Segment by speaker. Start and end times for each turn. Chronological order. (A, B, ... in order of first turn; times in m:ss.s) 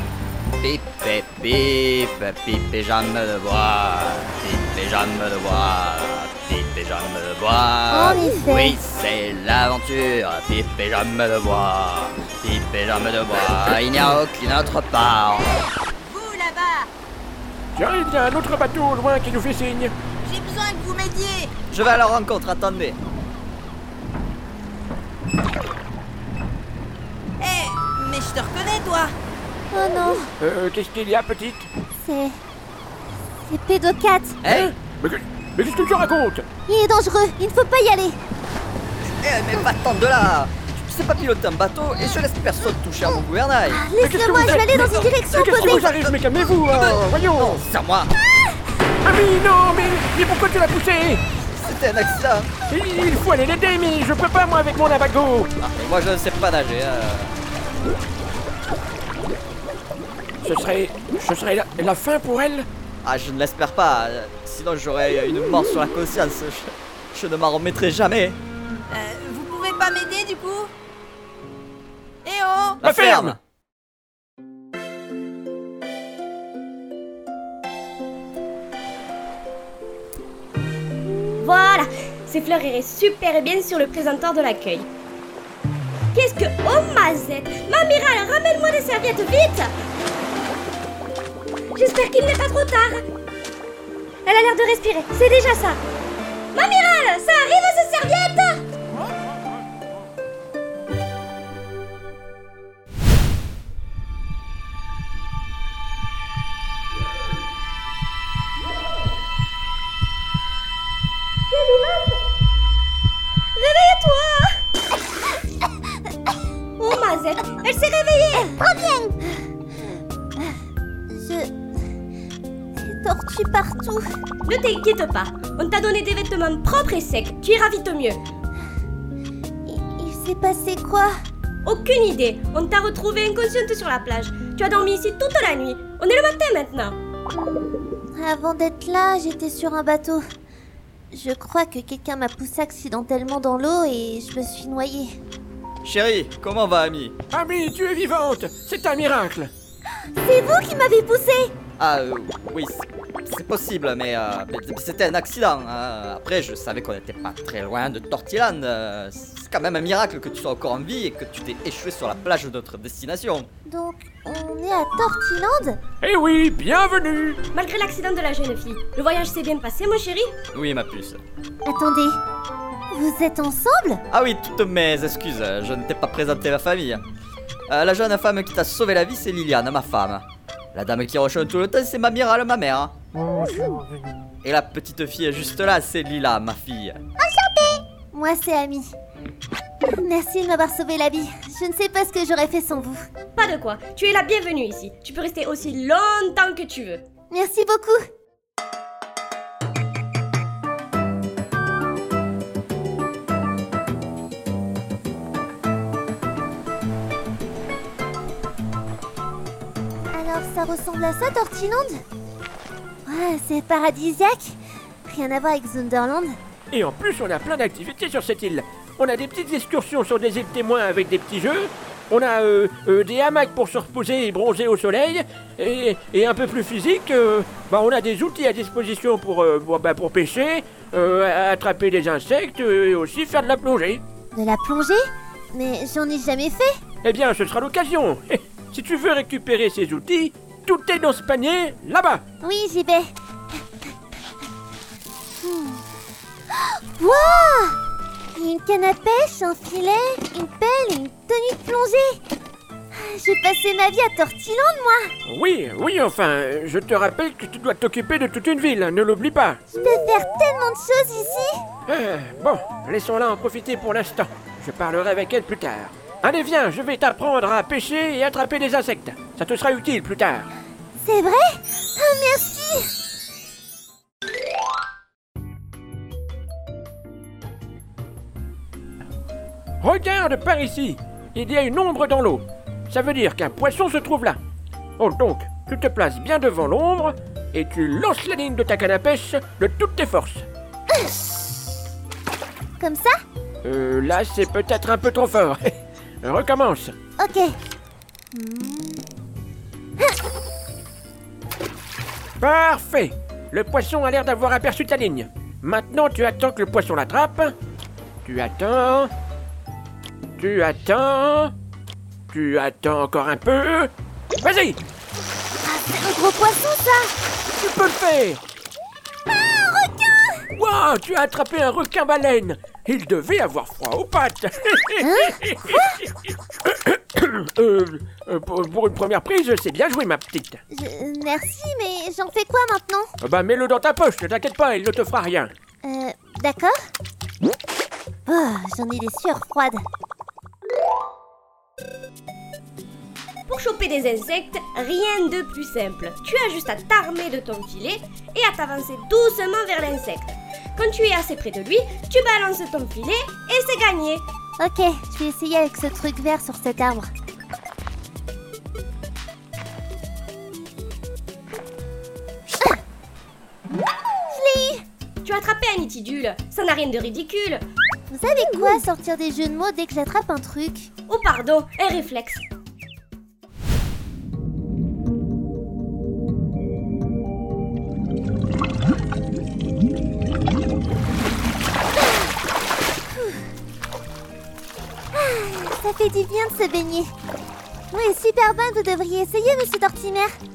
0:00.6-0:15.6 A
0:07.9-0:08.8 B
0:16.1-0:16.8 C
0:17.7-0:19.9 D
0:20.3-0:21.5 C
0:21.7-0:23.0 A
0:27.4-0:29.1 C
0:29.7-0:30.3 B
0:30.4-0:31.7 D
0:31.9-0:32.3 B
0:33.4-0:34.4 B
0:34.4-0:34.7 A
0:34.5-0:36.4 D
0:36.7-0:38.2 B
0:39.0-0:43.8 A
0:43.7-0:45.9 B
0:44.0-0:47.6 D
0:44.4-0:45.1 A
0:45.9-0:46.2 A
0:47.2-0:48.1 A
0:49.0-0:51.2 D
0:51.5-0:52.5 A
0:52.7-0:55.5 D
0:55.6-0:57.3 A
1:00.4-1:02.7 D
1:03.0-1:08.4 A
1:08.9-1:10.6 C
1:12.3-1:12.8 C
1:12.8-1:13.4 A
1:12.8-1:13.4 D
1:21.4-1:24.9 E
1:26.1-1:29.7 E
1:31.7-1:33.0 E
1:34.2-1:35.8 E
1:36.5-1:38.6 E
1:51.5-1:52.1 E
1:53.6-1:54.5 E
1:56.8-1:58.6 E
1:58.6-1:59.3 B
2:01.1-2:01.5 B
2:02.8-2:04.0 B
2:04.4-2:08.2 E
2:09.7-2:11.1 B
2:11.6-2:17.0 E
2:18.2-2:20.2 B
2:21.1-2:25.2 B
2:25.8-2:27.1 A
2:27.3-2:29.5 D
2:30.2-2:31.5 B
2:31.8-2:43.5 A
2:43.6-2:45.8 B
2:46.0-2:47.4 D
2:47.5-2:50.3 E
2:50.5-2:51.2 A
2:51.6-2:52.2 B
2:52.9-2:54.0 B
2:54.1-2:57.0 A
2:57.7-3:02.9 A
3:04.4-3:07.0 A
3:07.2-3:08.9 B
3:09.9-3:13.0 B
3:13.4-3:17.0 E
3:17.3-3:18.0 B
3:30.1-3:31.9 B
3:33.0-3:36.3 B
3:36.7-3:54.0 D
3:54.3-3:55.0 B
3:55.5-3:56.7 B
3:57.0-4:02.2 D
4:02.4-4:03.0 B
4:05.4-4:05.8 B
4:07.0-4:07.8 B
4:08.3-4:12.2 B
4:12.9-4:15.1 B
4:15.3-4:19.6 D
4:19.7-4:21.6 B
4:21.9-4:30.5 D
4:31.0-4:32.9 B
4:39.8-4:44.4 D
4:45.0-4:50.4 D
4:52.8-4:53.1 B
4:53.6-4:56.9 D
4:57.2-4:57.6 B
4:58.3-4:59.0 B
5:02.4-5:07.5 D
5:08.2-5:09.1 D
5:10.4-5:11.5 D
5:12.3-5:14.8 D
5:15.6-5:17.1 B
5:17.6-5:18.4 D
5:19.3-5:20.5 B
5:20.6-5:25.6 D
5:25.0-5:26.1 B
5:26.6-5:30.6 D
5:30.7-5:33.1 B
5:33.2-5:35.5 D
5:35.8-5:36.7 B
5:38.3-5:39.8 B
5:43.5-5:54.2 E
5:54.6-5:57.0 B
6:04.3-6:04.8 B
6:05.2-6:07.6 E
6:08.1-6:10.9 B
6:11.1-6:12.4 E
6:23.1-6:23.4 B
6:25.1-6:27.1 B
6:27.9-6:30.4 B